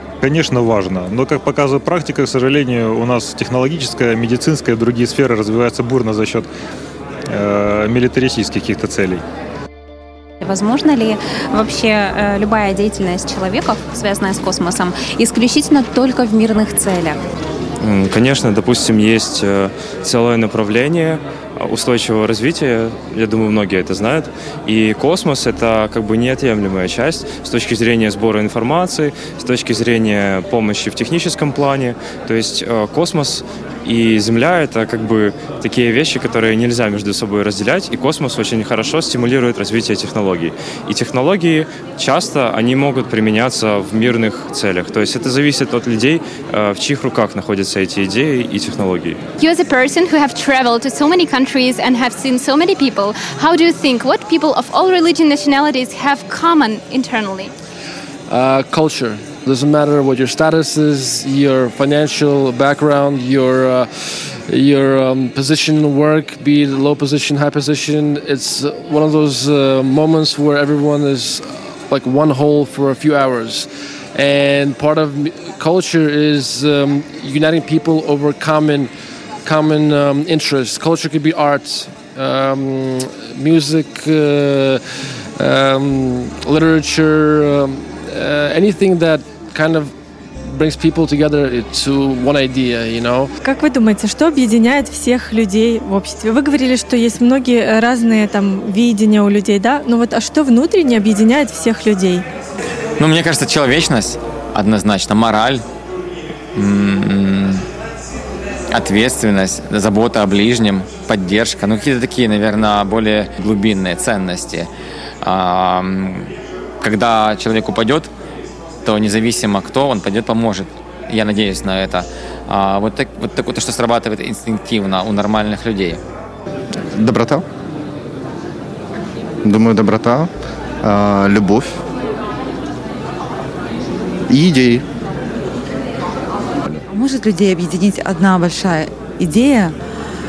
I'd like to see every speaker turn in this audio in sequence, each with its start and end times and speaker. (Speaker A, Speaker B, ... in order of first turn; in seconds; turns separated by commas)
Speaker A: 0.2-6.5, Speaker A: 7.3-9.2, Speaker B: 10.4-17.2, Speaker C: 17.8-49.2, Speaker D: 49.4-57.5, Speaker E: 58.3-78.9, Speaker E: 79.4-84.8, Speaker E: 85.4-89.9, Speaker E: 90.4-93.3, Speaker F: 93.4-102.2, Speaker G: 103.0-105.6, Speaker G: 106.5-107.6, Speaker G: 108.7-114.7, Speaker G: 115.2-116.3, Speaker G: 116.8-118.1, Speaker G: 118.8-126.0, Speaker H: 126.9-127.4, Speaker H: 129.4-130.3, Speaker H: 130.8-131.8, Speaker H: 134.3-134.8, Speaker I: 136.9-139.8